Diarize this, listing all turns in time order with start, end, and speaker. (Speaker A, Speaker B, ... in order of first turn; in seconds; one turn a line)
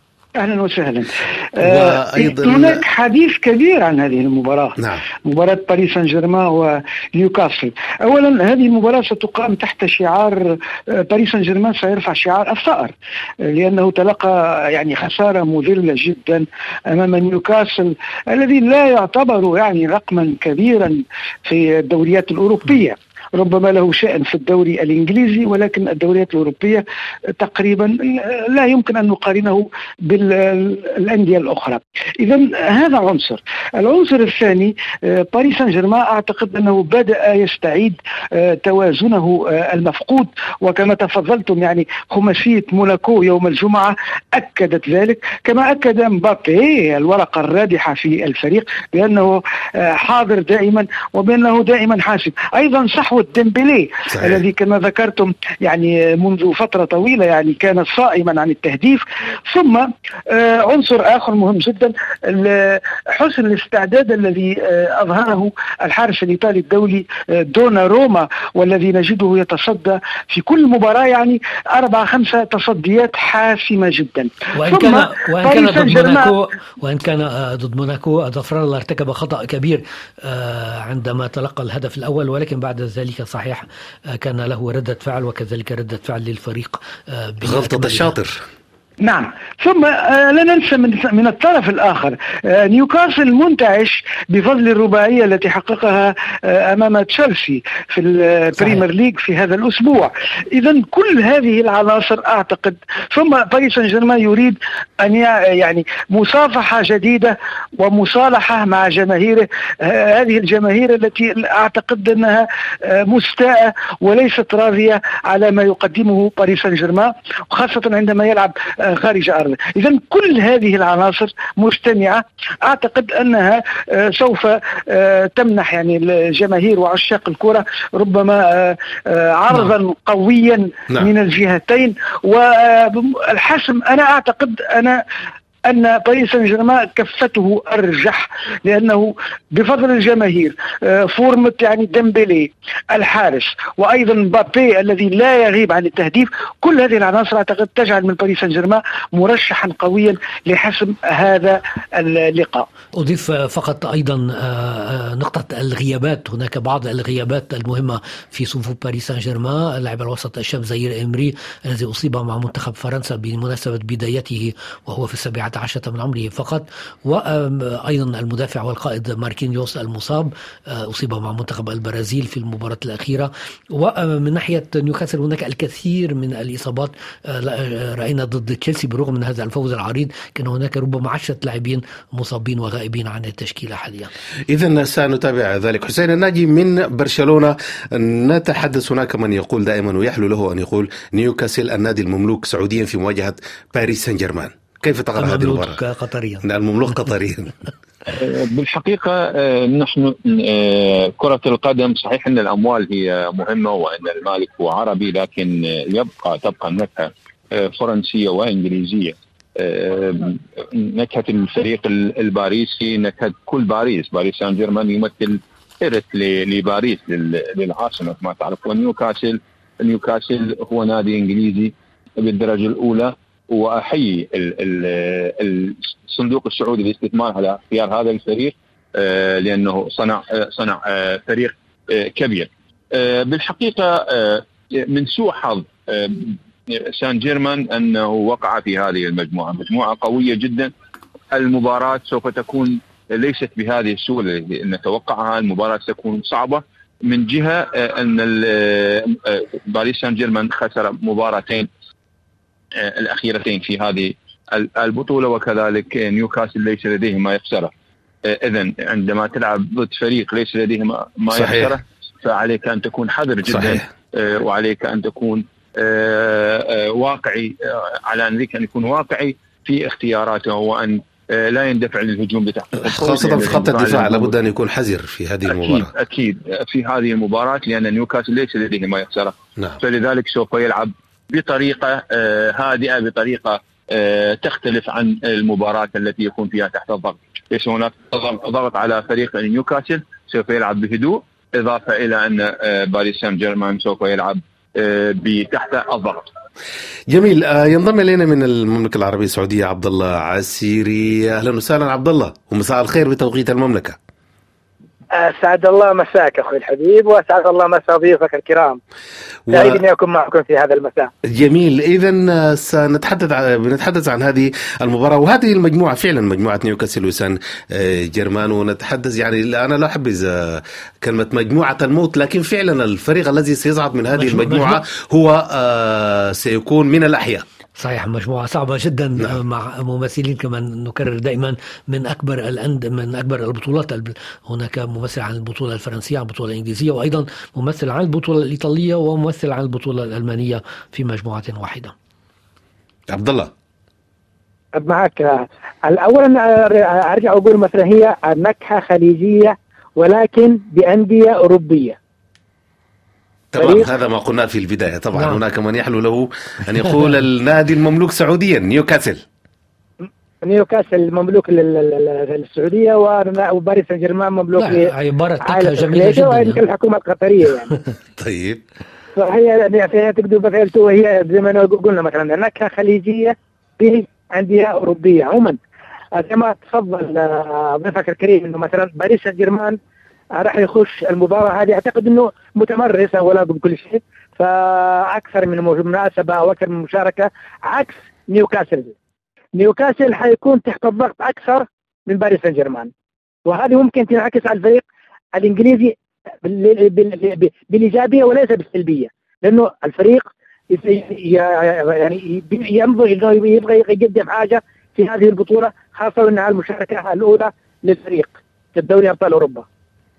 Speaker A: 0.4-26.9
Speaker B: 1.6-2.8
Speaker B: 4.8-5.0
Speaker A: 27.4-76.4
Speaker B: 54.1-54.4
Speaker C: 74.5-88.1
Speaker B: 87.4-88.4
Speaker A: 89.0-135.0
Speaker A: 135.7-152.7
Speaker C: 153.0-184.1
Speaker B: 184.5-195.8
Speaker C: 195.2-196.4
Speaker B: 196.4-197.5
Speaker D: 198.1-240.7
Speaker D: 241.3-251.7
Speaker D: 252.8-257.7
Speaker D: 258.2-274.3
Speaker B: 261.3-261.8
Speaker B: 263.5-263.9
Speaker B: 272.8-275.9
Speaker D: 275.5-296.3
Speaker B: 297.1-304.0
Speaker E: 305.1-308.8
Speaker B: 309.5-309.8
Speaker E: 309.5-311.1
Speaker B: 311.2-327.4
Speaker C: 324.2-324.8
Speaker C: 327.8-341.9
Speaker B: 343.1-343.5
Speaker E: 344.8-352.0
Speaker B: 353.5-359.2
Speaker E: 353.6-353.9
Speaker C: 355.1-355.4
Speaker E: 360.0-364.9
Speaker C: 364.6-366.6
Speaker E: 365.4-367.8
Speaker B: 368.2-368.6
Speaker E: 369.1-375.6
Speaker E: 376.2-379.8
Speaker E: 380.4-388.9
Speaker E: 389.6-392.9
Speaker E: 393.5-394.8
Speaker E: 395.4-409.6